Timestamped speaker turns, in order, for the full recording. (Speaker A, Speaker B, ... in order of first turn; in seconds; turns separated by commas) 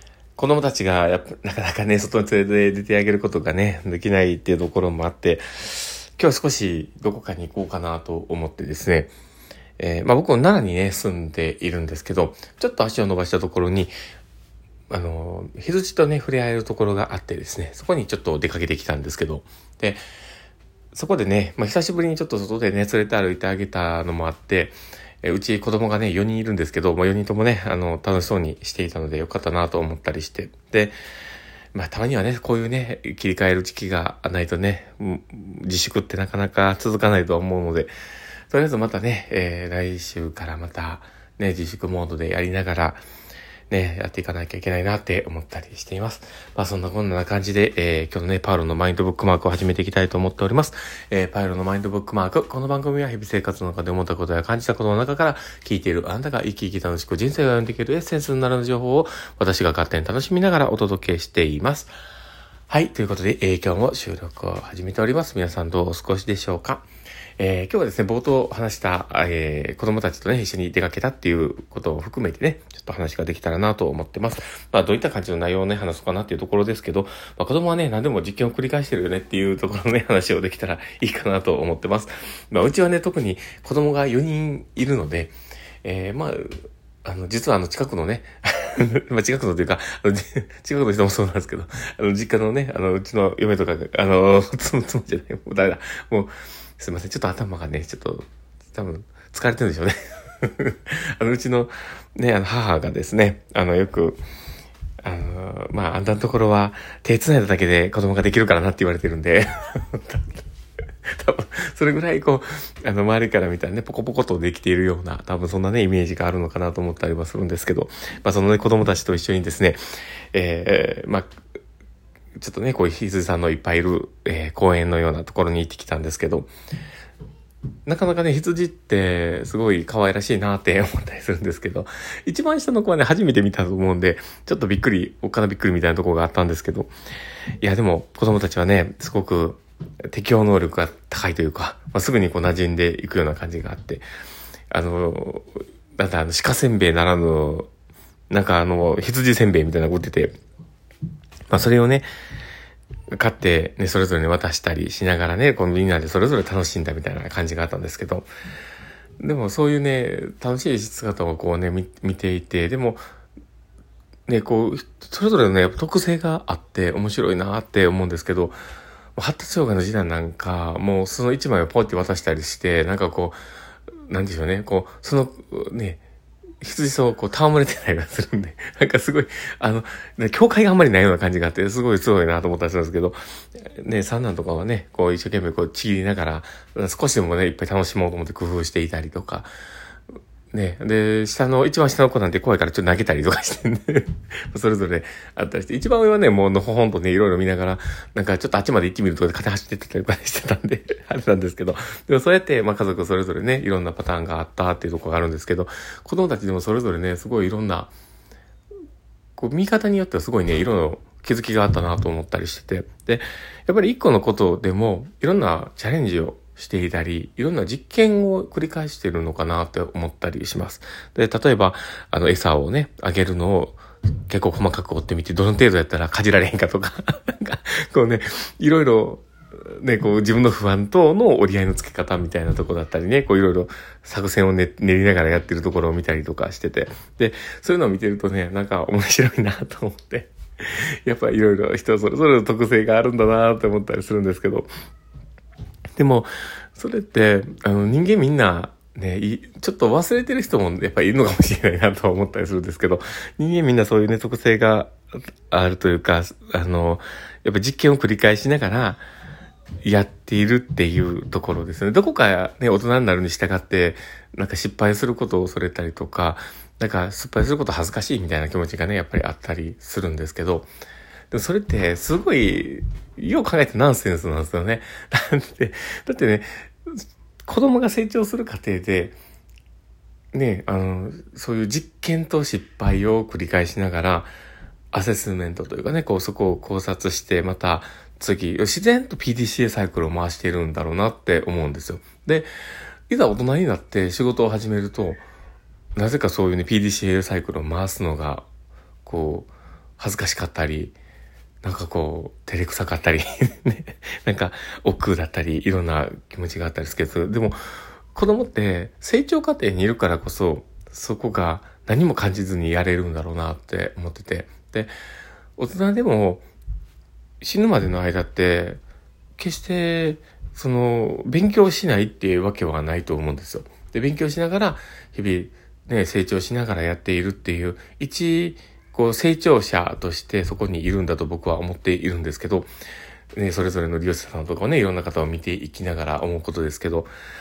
Speaker A: 0.3-9.1, Speaker A: 9.8-13.9, Speaker A: 14.9-20.0, Speaker A: 20.9-30.9, Speaker A: 31.7-37.9, Speaker A: 38.5-43.0, Speaker A: 43.7-61.9, Speaker A: 62.7-66.9, Speaker A: 67.4-85.3, Speaker A: 85.8-104.2, Speaker A: 105.0-110.3, Speaker A: 111.0-119.8, Speaker A: 120.3-121.3, Speaker A: 122.4-126.5, Speaker A: 127.8-136.9, Speaker A: 137.6-144.0, Speaker A: 144.7-147.7, Speaker A: 148.3-150.3, Speaker A: 151.5-152.1, Speaker A: 153.1-158.3, Speaker A: 159.2-163.0, Speaker A: 164.3-168.6, Speaker A: 169.2-173.4, Speaker A: 174.1-176.0, Speaker A: 176.6-189.5, Speaker A: 190.5-207.9, Speaker A: 209.4-244.7, Speaker A: 246.0-254.9, Speaker A: 255.5-259.0, Speaker A: 259.8-270.7, Speaker A: 271.3-279.2, Speaker A: 280.3-284.3, Speaker A: 284.9-292.5, Speaker A: 293.1-295.2, Speaker A: 295.9-298.4, Speaker A: 299.0-300.9, Speaker A: 301.6-307.6, Speaker A: 308.1-314.9, Speaker A: 315.6-316.4, Speaker A: 317.4-318.8, Speaker A: 319.4-332.7, Speaker A: 333.3-337.1